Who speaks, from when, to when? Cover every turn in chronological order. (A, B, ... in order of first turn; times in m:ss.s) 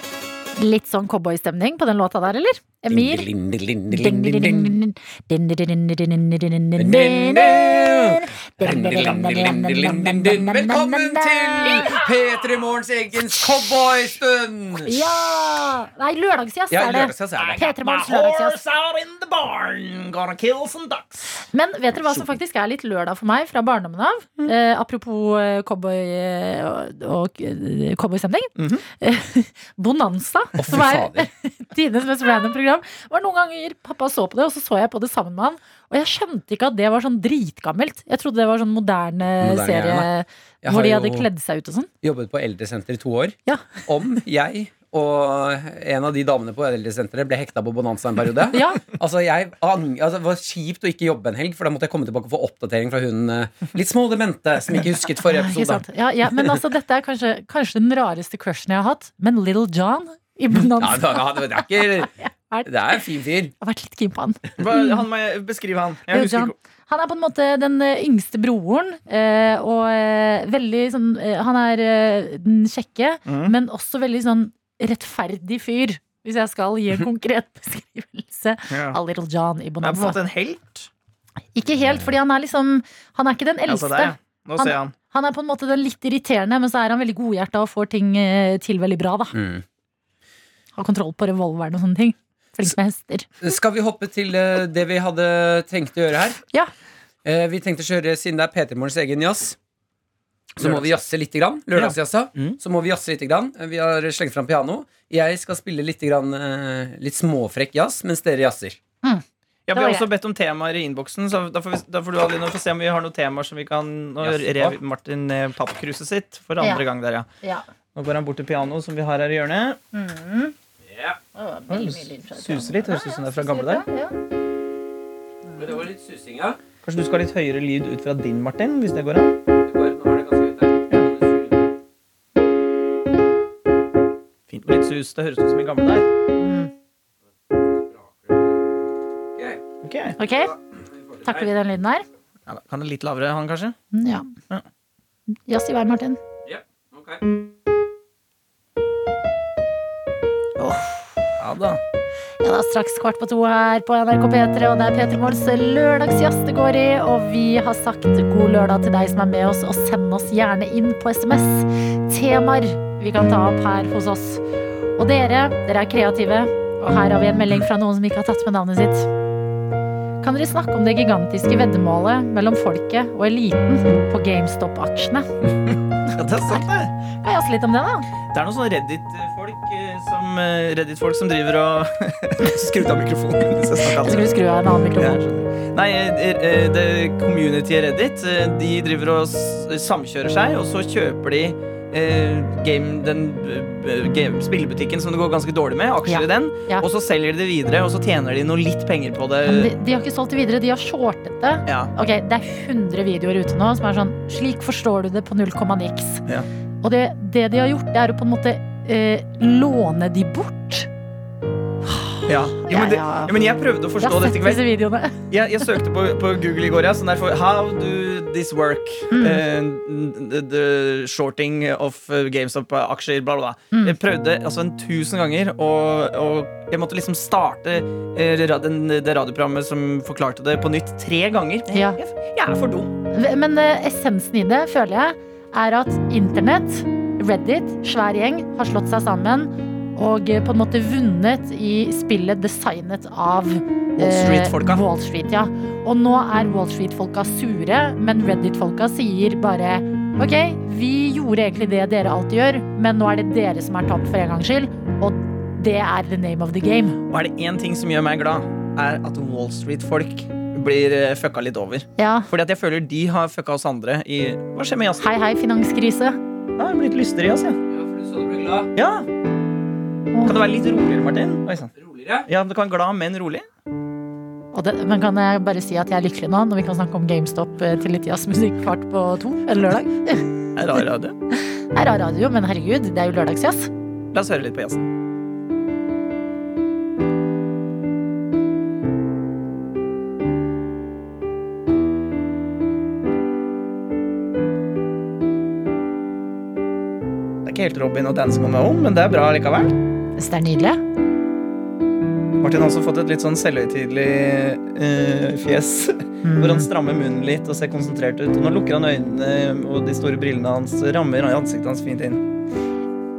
0:00.6-0:03.3 A
0:02.9-0:04.8 B
0:03.9-0:12.1 A
0:06.8-0:15.1 B
0:14.8-0:18.6 A
0:16.7-0:17.7 B
0:17.4-0:21.3 C
0:21.5-0:41.9 A
0:22.0-0:22.3 B
0:28.6-0:28.8 C
0:30.6-0:31.3 B
0:39.4-0:40.1 B
0:40.6-0:41.3 B
0:42.0-0:55.8 B
0:43.5-0:43.8 A
0:48.5-0:48.8 A
0:55.3-1:03.0 A
1:00.8-1:02.1 B
1:02.7-1:03.5 B
1:03.6-1:05.0 A
1:04.6-1:06.6 C
1:06.1-1:20.2 A
1:13.3-1:13.6 C
1:18.7-1:19.0 C
1:19.8-1:20.9 C
1:21.6-1:29.4 A
1:21.8-1:22.1 B
1:23.7-1:24.9 C
1:29.3-1:29.6 B
1:30.8-1:33.3 A
1:33.4-1:36.4 B
1:37.2-1:39.6 B
1:40.6-1:48.8 B
1:40.6-1:40.9 C
1:41.8-1:42.6 C
1:49.0-1:50.1 A
1:49.7-1:57.3 C
1:54.2-1:54.8 B
1:56.6-1:56.8 A
1:57.4-1:57.7 A
1:58.0-1:59.8 C
1:59.9-2:00.5 A
2:00.8-2:01.2 B
2:01.4-2:04.2 A
2:01.7-2:03.8 C
2:05.6-2:06.6 B
2:06.8-2:09.3 C
2:09.6-2:11.7 B
2:14.5-2:16.1 C
2:16.4-2:16.7 A
2:17.8-2:18.6 B
2:19.4-2:19.6 B
2:19.8-2:20.2 C
2:20.2-2:20.5 A
2:20.2-2:21.5 B
2:21.2-2:22.0 A
2:22.5-2:23.8 C
2:23.9-2:24.3 A
2:25.5-2:26.2 A
2:26.4-2:27.2 B
2:30.6-2:31.2 A
2:31.4-2:31.8 C
2:32.4-2:44.4 A
2:45.0-2:49.1 A
2:50.2-2:55.3 A
2:56.1-2:56.9 C
2:57.2-2:58.1 A
2:58.3-3:04.4 C
3:03.9-3:05.2 A
3:05.0-3:19.7 C
3:16.1-3:16.9 A
3:19.5-3:26.2 A
3:21.7-3:21.9 C
3:26.8-3:30.9 A
3:31.8-3:33.4 A
3:32.3-3:34.6 C
3:34.0-3:35.3 A
3:35.3-3:52.9 C
3:39.1-3:39.4 A
3:51.7-3:52.0 A
3:53.1-4:17.0 A
4:04.0-4:04.8 C
4:17.1-4:25.1 C
4:22.0-4:22.3 A
4:25.0-4:26.2 A
4:26.6-4:27.6 C
4:27.7-4:28.7 B
4:28.8-4:29.1 C
4:30.1-4:30.4 A
4:30.2-4:31.7 C
4:31.8-4:32.3 B
4:32.3-4:33.5 C
4:34.5-4:40.3 A
4:40.6-4:41.2 C
4:41.3-4:43.7 A
4:44.1-4:44.9 C
4:57.4-4:59.8 C
5:00.2-5:00.8 A
5:02.4-5:12.2 C
5:06.2-5:06.7 A